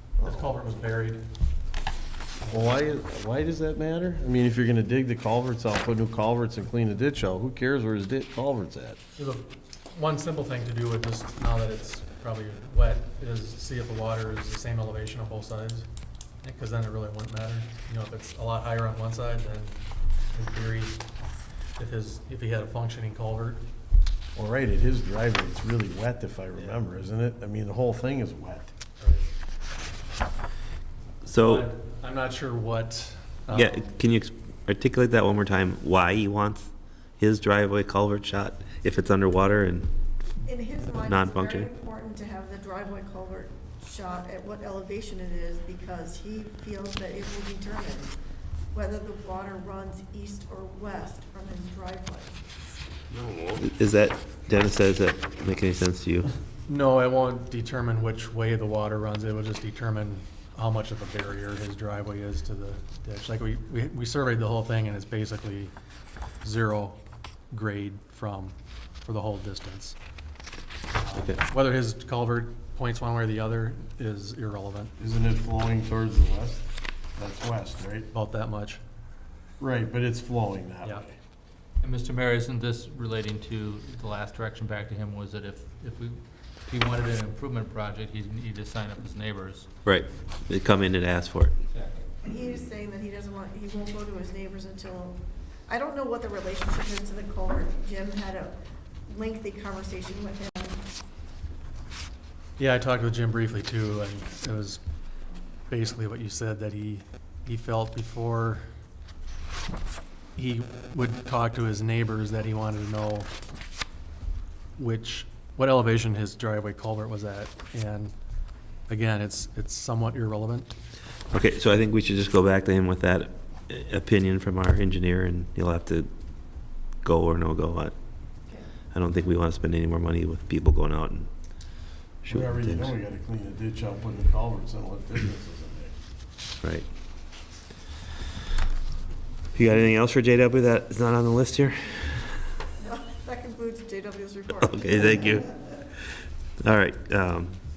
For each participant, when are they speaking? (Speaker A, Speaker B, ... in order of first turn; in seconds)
Speaker A: 0.2-0.5, 2.5-9.0, 24.3-28.7, 75.0-78.1, 79.6-81.1, 132.3-135.9
Speaker B: 0.2-1.2, 9.2-15.9, 16.4-19.8, 20.3-21.0, 21.8-23.6, 29.0-29.2, 31.4-33.8, 56.7-65.7, 66.4-67.0, 67.5-70.0, 71.0-74.9, 78.1-78.8, 102.6-104.8, 105.7-108.6, 110.3-113.3, 114.8-118.1, 118.9-120.7
Speaker C: 31.2-31.7, 33.5-39.9, 41.0-41.7, 53.6-56.3, 89.8-91.5, 121.3-126.1, 127.0-127.9, 128.9-131.3, 132.2-132.9, 139.5-142.3, 144.6-145.4, 146.6-147.6
Speaker D: 40.4-48.1, 48.7-52.4, 92.2-95.2, 95.7-98.5, 99.1-100.8, 142.8-145.4
Speaker E: 81.8-89.7, 91.7-92.1